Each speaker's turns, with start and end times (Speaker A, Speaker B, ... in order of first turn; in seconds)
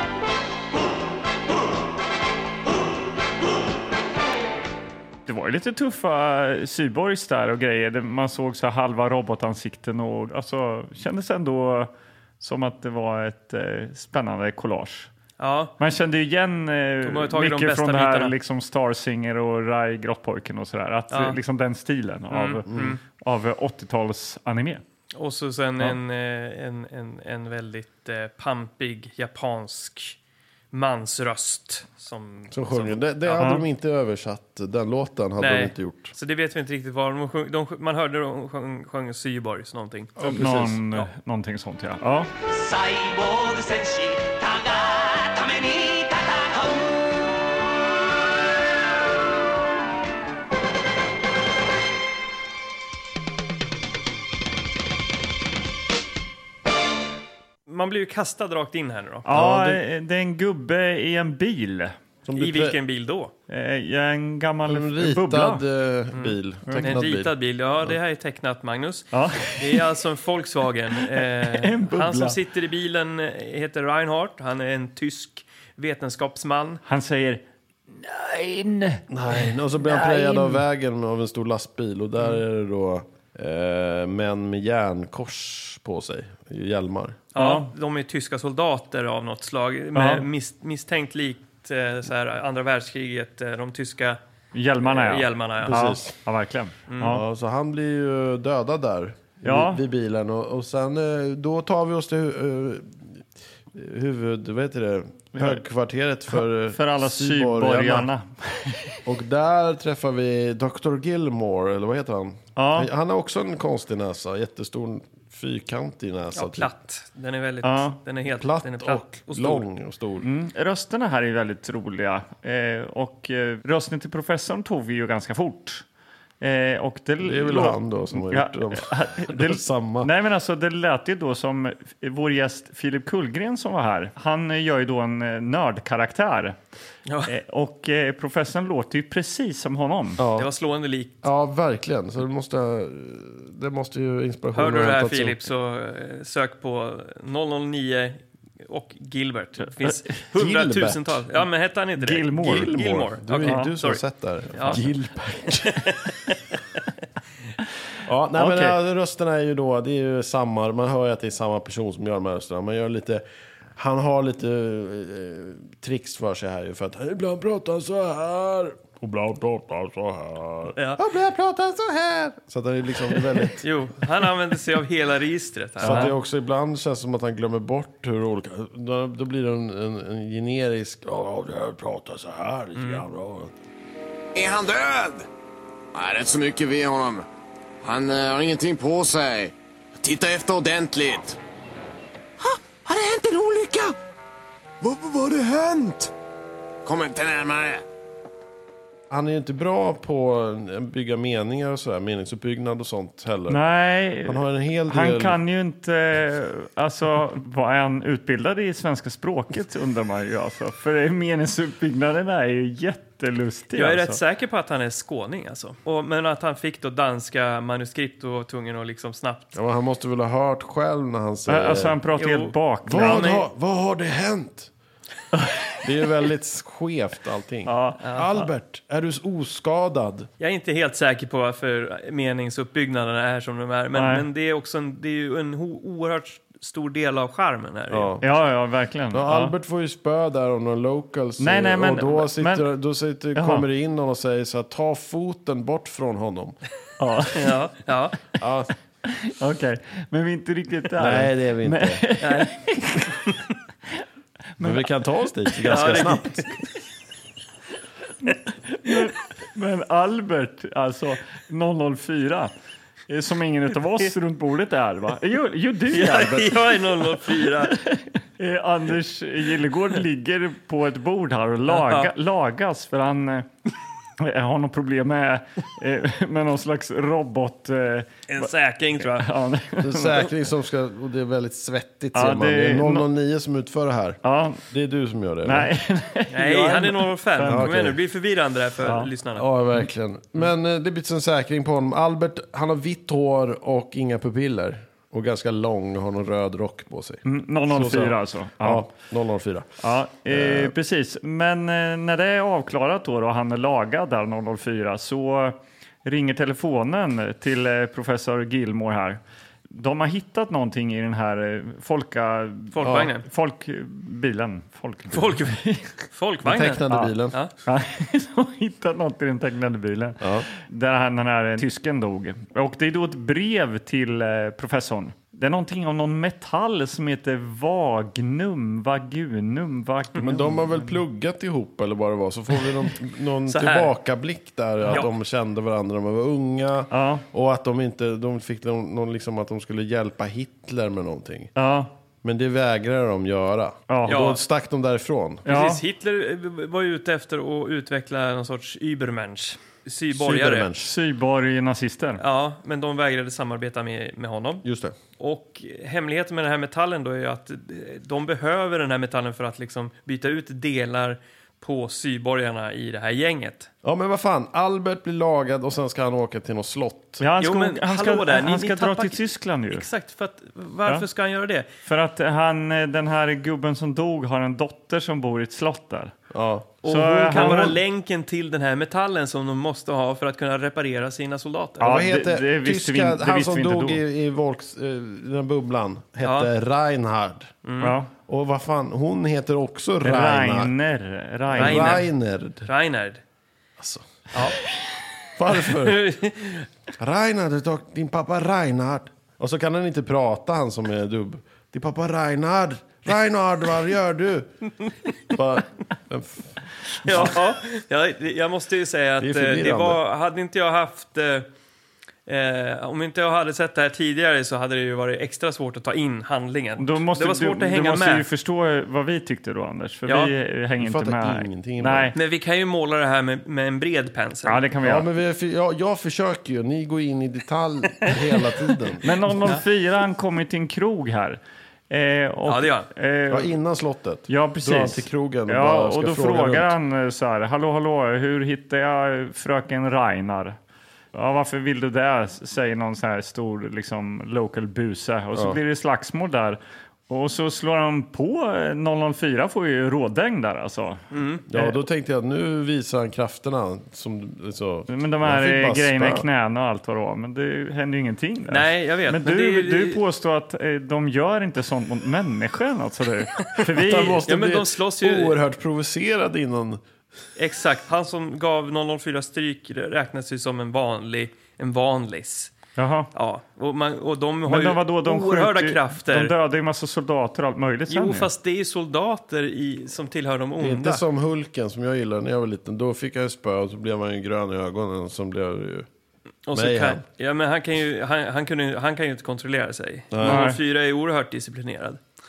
Speaker A: 5.2-15.1, 15.8-24.8, 33.4-33.6, 40.2-42.3, 59.2-62.0, 63.5-65.6, 66.7-67.0, 69.1-69.9, 71.0-72.4, 76.8-80.6, 87.3-87.7, 89.9-90.3, 94.5-97.2, 99.4-99.8, 106.6-109.0, 112.5-112.9, 117.6-118.0, 120.2-125.8, 126.4-136.6, 137.3-140.2, 152.0-152.8, 153.4-153.7, 154.6-154.9, 158.3-158.8, 203.5-214.2, 221.5-223.3, 225.4-225.7, 227.7-228.4, 233.9-234.2, 238.2-239.5, 241.4-242.7, 243.3-243.6, 247.0-247.5, 249.1-253.1, 254.6-254.8, 255.5-255.8, 258.2-262.5, 263.1-273.5, 274.2-278.5, 279.0-280.3, 282.1-283.1, 284.2-284.6, 285.4-287.7, 288.8-289.1, 297.2-298.9, 299.8-309.2, 309.7-315.9, 317.6-331.0, 336.9-337.2, 341.6-341.9, 343.9-344.2, 345.5-345.8, 350.8-352.2, 367.2-369.9, 371.8-376.1, 376.8-377.8, 381.8-384.0, 387.8-388.1, 390.0-392.0, 416.8-422.1, 424.4-425.1, 429.0-433.5, 434.3-440.6, 441.1-451.0, 454.9-464.2, 472.8-473.1, 474.5-478.3, 490.2-490.6
Speaker B: 15.4-15.7, 17.0-18.3, 21.1-21.4, 22.3-23.0, 25.1-30.2, 30.7-33.4, 35.4-40.2, 57.7-59.3, 62.4-63.3, 66.1-76.8, 87.3-94.2, 94.8-95.8, 96.9-97.2, 116.3-119.6, 137.1-137.3, 140.3-141.2, 144.5-154.0, 154.5-154.8, 155.7-156.3, 170.8-171.0, 173.5-176.1, 182.7-183.0, 213.7-219.6, 222.2-223.4, 228.0-228.3, 230.4-238.1, 247.3-248.2, 252.2-252.5, 255.7-256.6, 265.9-267.8, 271.7-272.1, 278.3-279.3, 286.3-289.5, 312.7-313.2, 315.1-317.5, 333.5-333.9, 344.1-344.4, 345.4-350.7, 352.2-354.6, 355.2-363.7, 367.4-371.7, 376.8-381.9, 386.2-386.5, 387.6-388.0, 391.6-392.1, 392.6-393.2, 394.3-394.6, 395.6-396.7, 407.0-411.5, 412.3-418.3, 420.1-420.3, 422.1-424.6, 432.4-432.9, 451.1-451.4, 458.5-460.0, 464.2-465.4, 467.4-472.5, 473.1-476.3, 477.9-481.0, 486.5-492.0
Speaker C: 22.7-23.0, 32.5-36.1, 40.2-40.8, 59.3-59.8, 62.2-62.8, 64.6-67.3, 79.1-87.2, 95.6-96.1, 97.0-108.1, 109.0-116.7, 118.4-120.2, 127.2-130.1, 140.2-140.5, 141.2-145.4, 150.3-151.2, 152.4-155.8, 158.0-163.2, 163.8-173.7, 175.8-183.5, 199.1-203.6, 204.2-205.4, 219.5-221.9, 222.8-224.7, 225.8-230.3, 237.9-238.3, 239.1-246.6, 248.4-248.7, 251.0-252.0, 254.6-256.5, 279.8-285.7, 287.4-288.0, 289.4-299.7, 300.3-300.7, 312.8-313.1, 316.4-317.4, 320.2-320.5, 330.2-341.5, 342.2-345.4, 350.1-350.9, 354.6-354.9, 363.8-367.2, 376.3-376.7, 377.3-377.7, 381.8-387.5, 388.3-390.7, 391.5-392.7, 393.8-394.0, 395.4-396.0, 397.0-404.6, 405.3-407.4, 409.2-410.0, 420.8-422.1, 424.8-429.1, 433.3-436.7, 445.3-445.6, 451.5-456.2, 463.7-466.8, 480.6-485.9, 486.5-487.0, 490.1-490.4
Speaker D: 42.5-47.2
Speaker E: 184.3-185.3, 185.9-187.2, 187.8-191.4, 192.4-193.9, 194.8-196.1, 196.8-197.8